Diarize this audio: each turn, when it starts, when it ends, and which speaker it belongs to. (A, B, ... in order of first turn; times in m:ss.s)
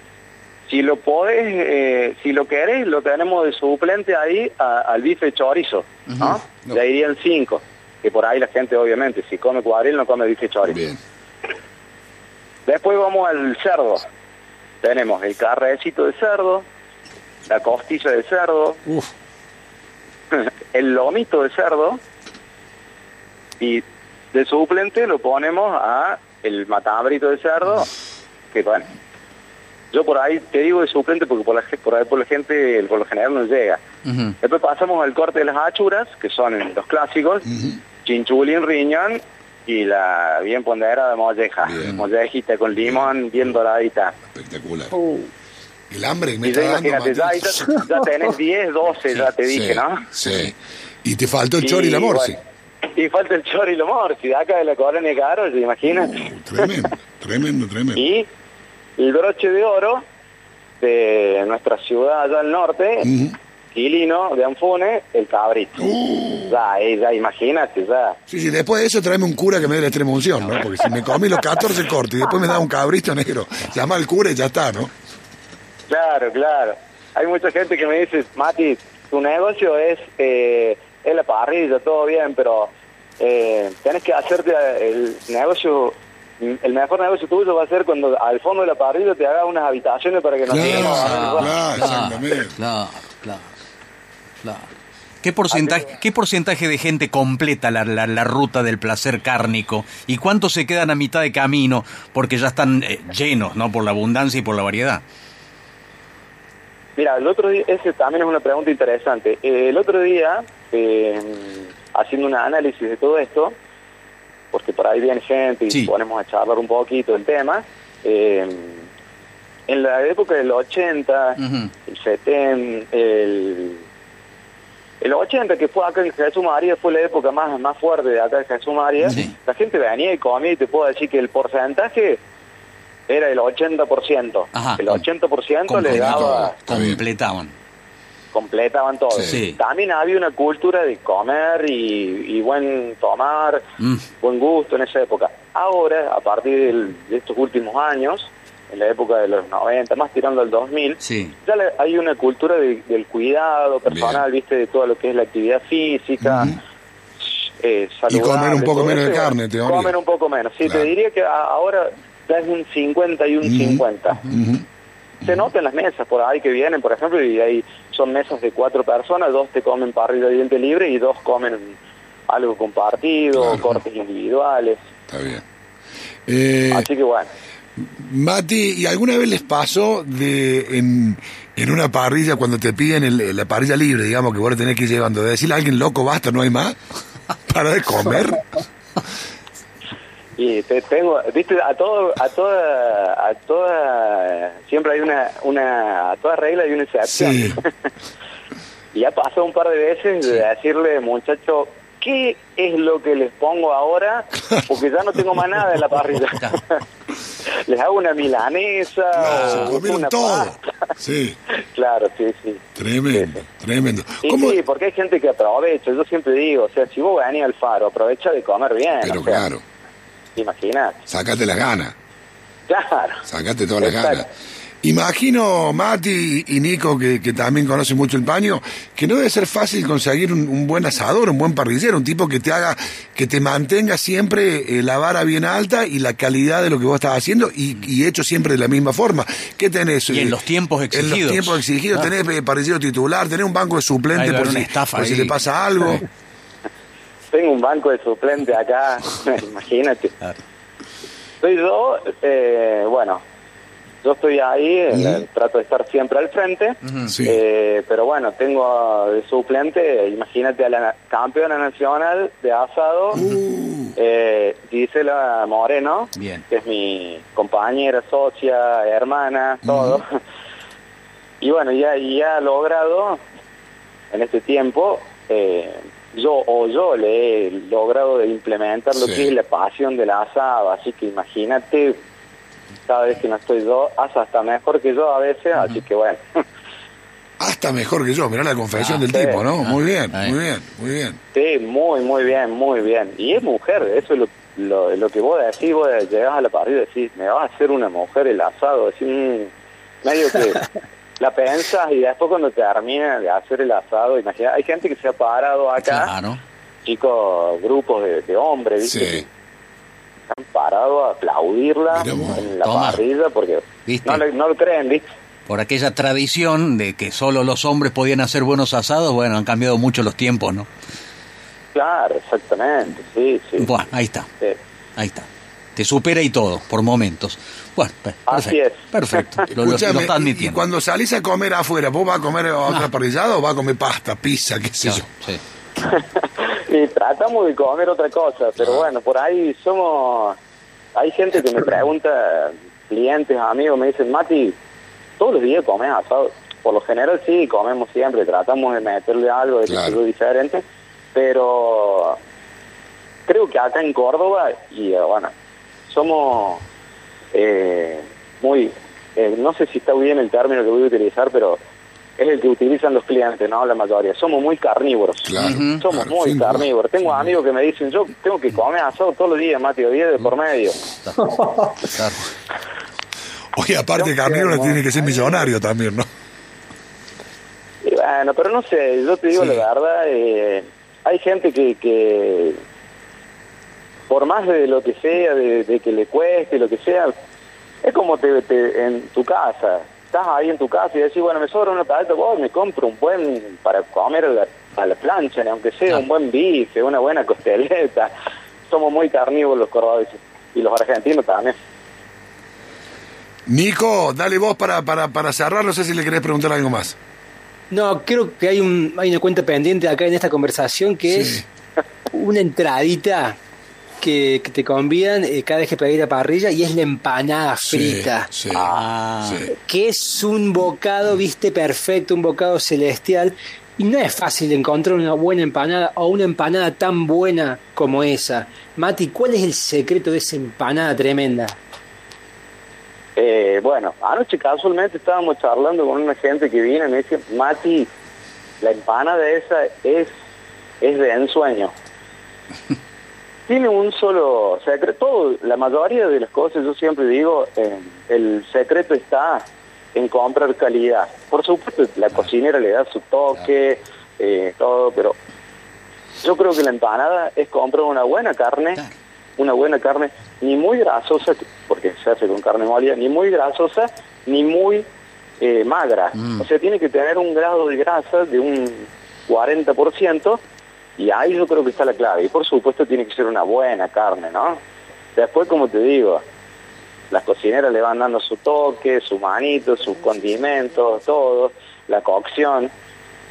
0:00.7-0:10.8 A
0:06.1-0:06.4 B
0:10.6-0:11.0 C
0:12.7-0:14.0 A
0:14.8-0:16.6 A
0:17.4-0:18.8 A
0:20.3-0:22.0 A
0:23.6-0:27.9 A
0:28.5-0:28.9 A
0:29.9-0:33.8 A
0:34.0-0:34.3 B
0:34.4-0:37.4 A
0:37.5-0:37.8 C
0:38.0-0:44.2 A
0:41.6-0:42.0 C
0:42.8-0:43.5 C
0:44.3-0:44.9 C
0:44.9-0:45.3 D
0:45.9-0:47.8 C
0:46.4-0:50.0 A
0:49.4-0:52.4 C
0:51.6-0:52.4 A
0:52.9-0:56.8 A
0:55.8-0:58.1 C
0:57.9-0:58.3 A
0:59.0-1:00.0 A
1:00.8-1:03.1 A
1:03.0-1:03.4 C
1:03.7-1:05.9 A
1:05.8-1:06.6 C
1:06.5-1:08.2 A
1:08.3-1:14.9 C
1:15.9-1:31.9 A
1:30.5-1:32.5 C
1:30.5-1:33.5 B
1:34.4-1:34.7 B
1:35.2-1:45.0 B
1:35.5-1:35.9 A
1:47.0-1:53.5 A
1:54.5-1:58.8 A
1:59.7-2:03.8 A
2:01.4-2:01.7 B
2:05.0-2:12.2 A
2:09.0-2:09.3 C
2:09.1-2:09.3 B
2:13.1-2:16.5 A
2:14.5-2:15.0 B
2:15.7-2:17.5 B
2:15.9-2:17.0 C
2:18.3-2:23.6 A
2:19.1-2:19.4 C
2:19.2-2:19.6 B
2:24.2-2:36.6 A
2:31.0-2:31.3 B
2:33.9-2:34.2 C
2:36.2-2:36.6 C
2:37.6-2:44.4 A
2:38.1-2:39.9 C
2:43.4-2:44.6 C
2:45.2-2:45.5 C
2:45.2-2:51.8 A
2:52.3-2:54.8 A
2:53.3-2:53.8 C
2:55.1-2:55.4 C
2:56.3-2:56.9 C
2:56.7-2:57.3 A
2:57.8-3:06.8 C
3:07.4-3:08.5 C
3:10.4-3:17.7 A
3:17.1-3:17.6 C
3:18.9-3:26.8 A
3:24.4-3:24.7 C
3:27.7-3:30.6 A
3:29.2-3:31.4 C
3:29.2-3:29.7 B
3:31.5-3:33.3 A
3:32.8-3:34.6 C
3:34.2-3:39.4 A
3:39.0-3:39.6 C
3:40.4-3:41.0 A
3:41.1-3:41.9 C
3:42.7-3:43.2 A
3:43.2-3:44.3 C
3:43.8-3:44.2 A
3:44.8-4:00.4 C
4:00.1-4:02.1 B
4:00.9-4:06.0 C
4:04.1-4:05.4 B
4:07.3-4:10.1 A
4:11.4-4:13.2 A
4:14.0-4:23.2 A
4:14.9-4:15.2 C
4:16.8-4:17.1 B
4:17.0-4:17.4 C
4:23.1-4:24.0 C
4:24.0-4:30.1 A
4:26.2-4:26.4 B
4:29.6-4:30.0 C
4:31.4-4:33.2 A
4:34.1-4:42.0 A
4:38.9-4:39.3 C
4:42.9-4:46.4 A
4:47.4-4:51.2 C
4:48.8-4:49.0 B
4:49.1-4:49.4 A
4:49.6-4:50.4 B
4:51.3-4:59.5 A
5:00.0-5:06.1 A
5:05.8-5:06.4 B
5:06.8-5:09.3 A
5:08.8-5:09.2 C
5:10.3-5:15.0 A
5:11.9-5:13.0 C
5:12.0-5:13.0 B
5:13.8-5:14.2 B
5:15.5-5:20.7 B
5:21.7-5:23.7 A
5:23.6-5:24.3 B
5:25.0-5:30.6 B
5:28.3-5:29.5 A
5:29.5-5:35.1 C
5:34.8-5:35.4 B
5:35.8-5:40.4 A
5:41.0-5:44.6 A
5:45.2-5:50.6 A
5:49.6-5:50.0 C
5:51.1-5:52.2 A
5:53.3-5:55.3 A
5:55.9-5:56.6 A
5:57.3-6:01.6 A
6:02.2-6:10.8 A
6:05.2-6:06.7 C
6:05.4-6:05.8 B
6:11.0-6:11.2 B
6:11.2-6:11.8 D
6:11.8-6:12.2 B
6:13.5-6:16.1 C
6:14.0-6:15.5 A
6:17.8-6:22.6 A
6:19.4-6:19.6 B
6:24.1-6:27.1 A
6:27.8-6:38.1 A
6:38.7-6:41.6 A
6:43.5-6:47.0 C
6:47.7-6:51.4 D
6:51.1-6:51.4 C
6:52.1-6:53.4 D
6:54.0-6:58.3 D
6:57.7-6:58.7 C
6:58.5-6:59.4 B
6:59.2-6:59.5 C
6:59.5-7:11.6 D
7:13.2-7:17.9 A
7:18.6-7:20.1 A
7:20.8-7:21.7 A
7:23.5-7:29.4 A
7:29.9-7:35.2 A
7:36.2-7:38.8 A
7:39.4-7:44.8 A
7:45.4-7:50.4 A
7:46.2-7:46.4 B
7:51.0-7:54.6 A
7:55.2-7:56.2 A
7:57.1-8:02.7 A